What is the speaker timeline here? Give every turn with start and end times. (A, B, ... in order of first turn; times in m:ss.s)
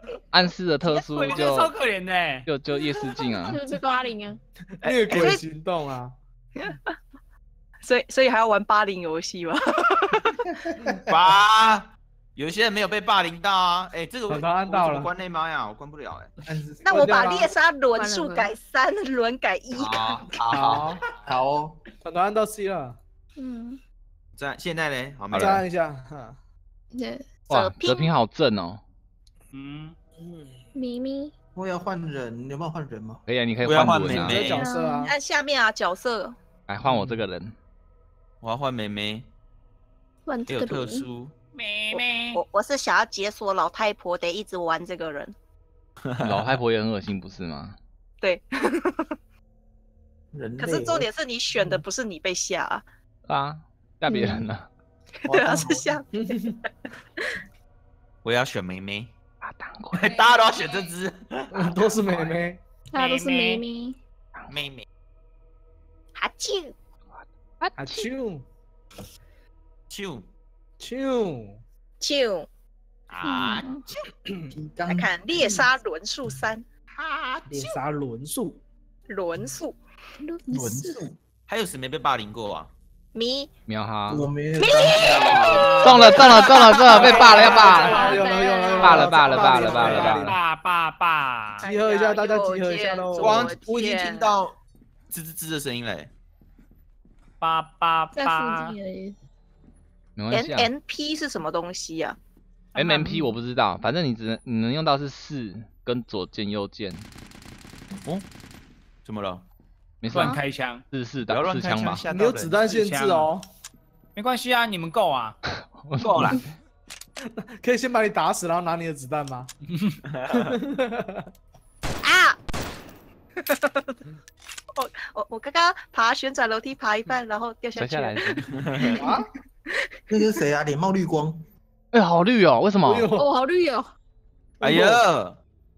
0:00.3-0:01.7 A
0:00.8-0:02.5 B
0:02.4-0:03.6 A
0:03.4-0:04.4 C
0:04.8-0:06.2 D
0:05.1-0:05.4 E
0:06.6-0:06.9 E
0:07.8-0:10.0 E
0:10.8-0:11.1 F
0:11.1-0:16.3 G
0:14.3-0:15.1 D
0:16.4-0:17.0 F
0:16.8-0:20.2 E
0:16.9-0:17.5 D
0:17.9-0:18.5 C
0:19.7-0:20.9 G
0:20.5-0:21.0 D
0:21.2-0:21.8 F
0:22.0-0:23.0 D
0:23.4-0:23.8 C
0:24.3-0:25.7 G
0:25.3-0:26.4 D
0:26.9-0:28.1 C
0:27.5-0:28.8 A
0:29.5-0:30.0 B
0:30.7-0:31.3 C
0:31.5-0:33.2 F
0:33.3-0:34.4 A
0:33.6-0:34.6 G
0:34.1-0:35.1 D
0:34.4-0:35.1 C
0:35.0-0:36.4 E
0:36.7-0:37.5 A
0:36.8-0:37.2 D
0:38.4-0:39.3 G
0:40.2-0:41.1 C
0:40.5-0:41.3 G
0:41.5-0:42.4 B
0:41.9-0:45.3 E
0:46.0-0:46.6 G
0:46.2-0:47.8 A
0:48.2-0:49.0 E
0:50.3-0:51.1 F
0:50.6-0:52.8 E
0:53.3-0:54.7 A
0:54.1-0:54.5 C
0:55.2-0:56.7 E
0:55.3-0:55.9 F
0:56.2-0:56.6 D
0:58.2-0:59.1 G
0:59.4-1:00.1 A
1:00.0-1:02.4 G
1:00.0-1:00.8 C
1:01.5-1:02.6 D
1:02.9-1:04.0 C
1:02.9-1:03.6 B
1:04.3-1:04.6 A
1:04.5-1:04.8 G
1:06.1-1:06.7 E
1:07.2-1:08.1 A
1:07.8-1:08.4 D
1:09.9-1:10.3 G
1:10.8-1:11.6 D
1:12.0-1:12.5 E
1:13.1-1:13.7 G
1:13.2-1:13.8 C
1:14.2-1:14.5 D
1:14.5-1:15.1 F
1:14.9-1:16.6 E
1:16.9-1:17.5 G
1:17.5-1:18.6 D
1:19.1-1:19.8 E
1:20.2-1:21.0 C
1:20.5-1:21.2 F
1:21.5-1:22.7 G
1:23.1-1:23.5 E
1:23.7-1:24.3 A
1:24.1-1:26.1 F
1:24.6-1:26.6 E
1:25.0-1:26.2 B
1:25.8-1:28.0 A
1:26.8-1:28.1 B
1:26.9-1:30.4 D
1:27.6-1:29.0 C
1:28.8-1:30.3 A
1:29.2-1:31.7 B
1:31.6-1:34.3 E
1:31.6-1:33.5 D
1:33.2-1:34.6 G
1:35.1-1:36.1 G
1:37.4-1:38.8 B
1:38.1-1:39.2 C
1:40.2-1:40.7 A
1:40.3-1:42.2 E
1:42.7-1:43.3 C
1:42.8-1:47.0 A
1:49.0-1:49.4 G
1:50.0-1:50.4 A
1:50.1-1:50.8 B
1:50.1-1:50.4 C
1:50.9-1:52.0 A
1:51.3-1:52.5 G
1:52.0-1:53.5 D
1:52.5-1:53.3 B
1:54.2-1:55.4 B
1:55.6-1:56.4 A
1:56.0-1:56.4 G
1:57.4-1:59.5 D
2:00.1-2:00.6 G
2:00.3-2:01.2 D
2:02.0-2:02.4 E
2:04.7-2:08.4 E
2:07.7-2:08.4 A
2:08.4-2:09.0 G
2:08.9-2:09.3 D
2:09.7-2:10.0 E
2:10.1-2:11.4 F
2:11.9-2:13.1 A
2:12.8-2:13.3 D
2:13.2-2:13.9 C
2:14.6-2:15.4 G
2:14.6-2:15.0 D